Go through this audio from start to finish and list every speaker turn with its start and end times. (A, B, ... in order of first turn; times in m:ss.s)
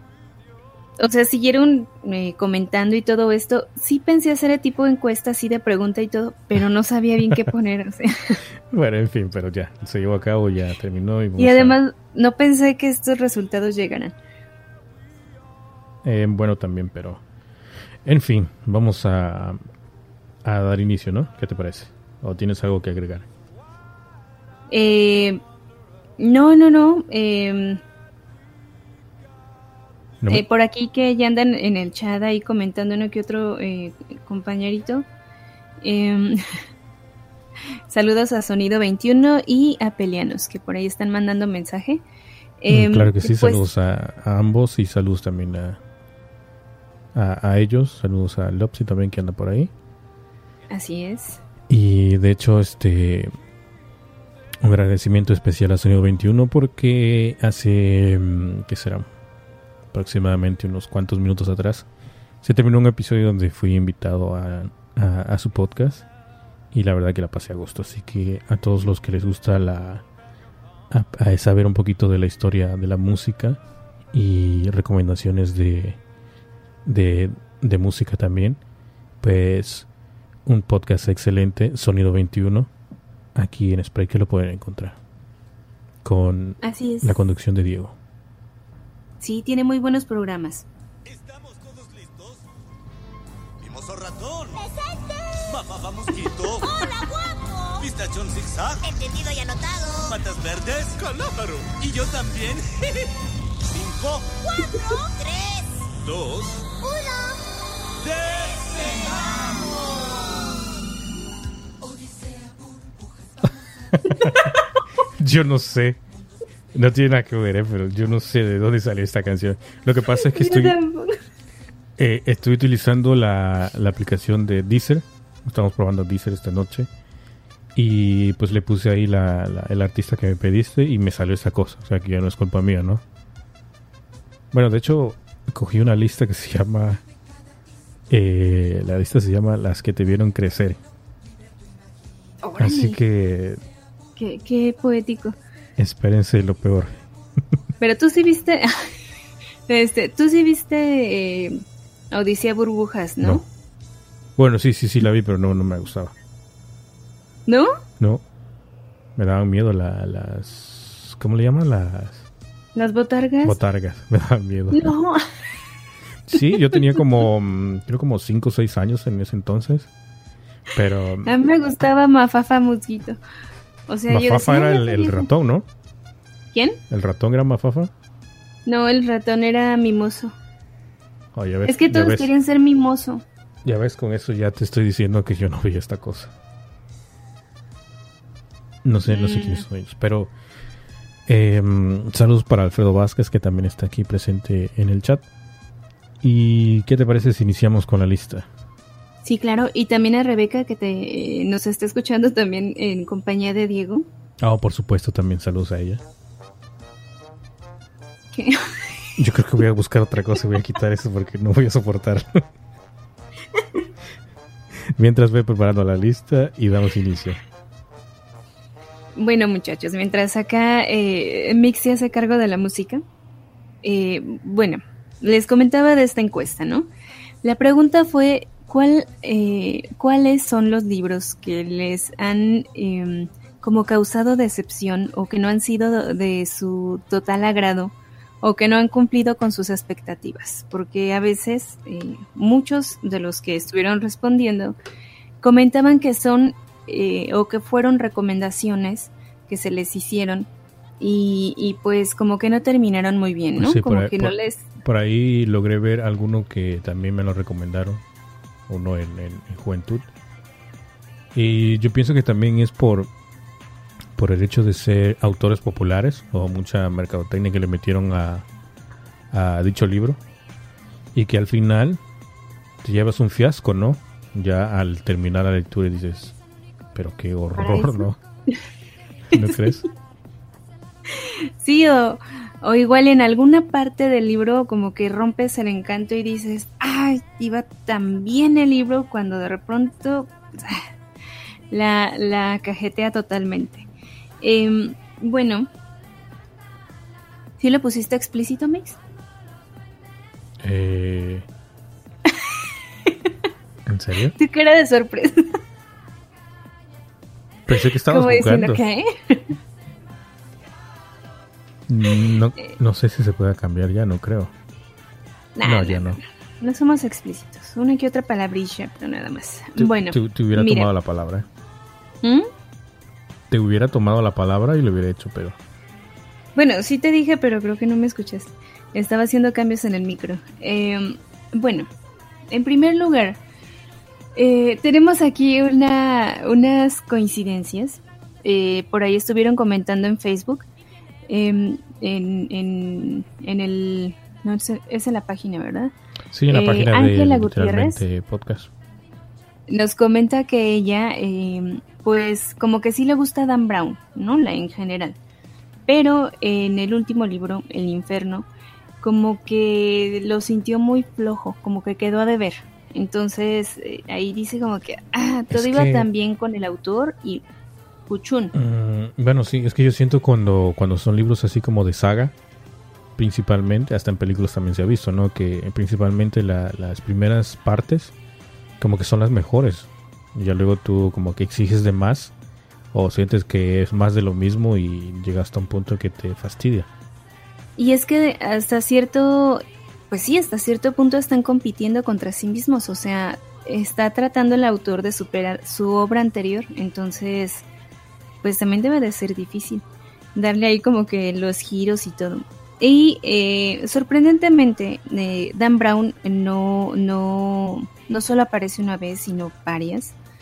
0:01.0-0:08.4 A
0:08.7-0:11.8 B
0:11.4-0:14.1 A
0:16.0-0:17.2 B
0:18.0-0:19.6 B
0:20.4-0:23.3 B
0:24.7-0:25.4 A
0:26.2-0:27.8 A
0:30.3-0:35.1 A
0:35.8-0:36.4 A
0:37.9-0:42.0 A
0:42.6-0:43.6 A
0:42.7-0:45.8 B
0:47.1-0:49.7 B
0:50.7-0:51.4 A
0:51.7-0:53.3 B
0:54.6-0:59.1 B
0:59.9-1:01.9 B
1:02.4-1:06.1 B
1:06.7-1:10.0 B
1:10.9-1:13.6 B
1:14.1-1:16.0 B
1:16.8-1:18.6 B
1:19.2-1:19.9 B
1:20.5-1:22.7 B
1:23.4-1:25.0 B
1:26.0-1:28.0 B
1:26.6-1:27.2 A
1:29.2-1:30.7 A
1:31.1-1:32.4 C
1:33.6-1:34.6 C
1:34.6-1:37.9 D
1:35.5-1:36.8 C
1:37.8-1:38.8 C
1:38.8-1:40.2 D
1:40.1-1:43.1 C
1:43.7-1:44.4 C
1:44.4-1:45.9 D
1:46.0-1:46.7 C
1:46.8-1:47.4 D
1:48.0-1:49.7 C
1:54.0-1:56.0 B
1:56.7-2:00.8 B
2:00.1-2:01.2 A
2:02.0-2:06.9 B
2:07.8-2:13.0 B
2:14.5-2:17.0 B
2:18.1-2:20.8 B
2:22.4-2:23.0 A
2:22.6-2:23.6 B
2:24.2-2:25.4 A
2:25.8-2:27.0 B
2:27.8-2:28.9 A
2:29.7-2:31.6 A
2:32.1-2:33.5 A
2:34.4-2:36.1 B
2:37.5-2:37.8 A
2:39.2-2:42.3 B
2:42.8-2:43.6 A
2:43.4-2:44.9 B
2:44.7-2:45.3 A
2:46.3-2:49.9 B
2:50.7-2:51.4 B
2:51.2-2:53.2 A
2:53.9-2:55.3 A
2:54.1-2:55.7 B
2:56.5-2:56.8 A
2:56.9-2:57.9 B
2:58.7-3:00.4 A
3:01.3-3:02.3 B
3:01.6-3:03.2 A
3:03.6-3:06.3 B
3:08.8-3:10.3 B
3:09.0-3:09.6 A
3:11.3-3:15.2 B
3:16.2-3:18.5 B
3:19.2-3:24.1 A
3:24.4-3:26.0 B
3:28.4-3:28.8 A
3:29.2-3:32.4 B
3:34.9-3:37.4 B
3:39.2-3:43.0 A
3:43.8-3:46.9 A
3:47.4-4:04.8 A
4:05.4-4:10.5 A
4:11.0-4:14.6 A
4:13.6-4:18.0 B
4:18.7-4:20.1 B
4:21.3-4:23.1 B
4:24.2-4:28.5 B
4:29.3-4:30.2 B
4:31.2-4:32.0 B
4:32.8-4:36.4 B
4:37.0-4:38.2 B
4:37.6-4:38.6 A
4:39.3-4:39.8 B
4:39.3-4:39.8 A
4:41.1-4:50.9 A
4:51.7-4:53.9 A
4:54.4-4:55.7 A
4:57.6-4:59.0 A
5:00.6-5:01.5 B
5:03.9-5:04.4 B
5:04.4-5:05.5 A
5:07.7-5:08.8 B
5:08.1-5:09.5 A
5:11.9-5:14.5 B
5:15.6-5:20.9 A
5:15.6-5:16.2 B
5:19.8-5:21.5 B
5:22.2-5:22.5 A
5:23.5-5:25.6 B
5:26.6-5:31.9 A
5:32.5-5:33.4 A
5:34.4-5:40.6 A
5:41.3-5:45.9 A
5:46.3-5:48.7 B
5:46.5-5:48.0 A
5:49.7-5:55.2 A
5:55.9-5:58.5 A
5:59.0-6:07.4 A
6:05.5-6:06.1 B
6:08.1-6:08.5 A
6:08.5-6:12.4 B
6:13.2-6:18.1 B
6:18.8-6:22.3 B
6:22.9-6:26.9 B
6:27.8-6:37.6 A
6:38.4-6:39.8 A
6:40.4-6:50.1 A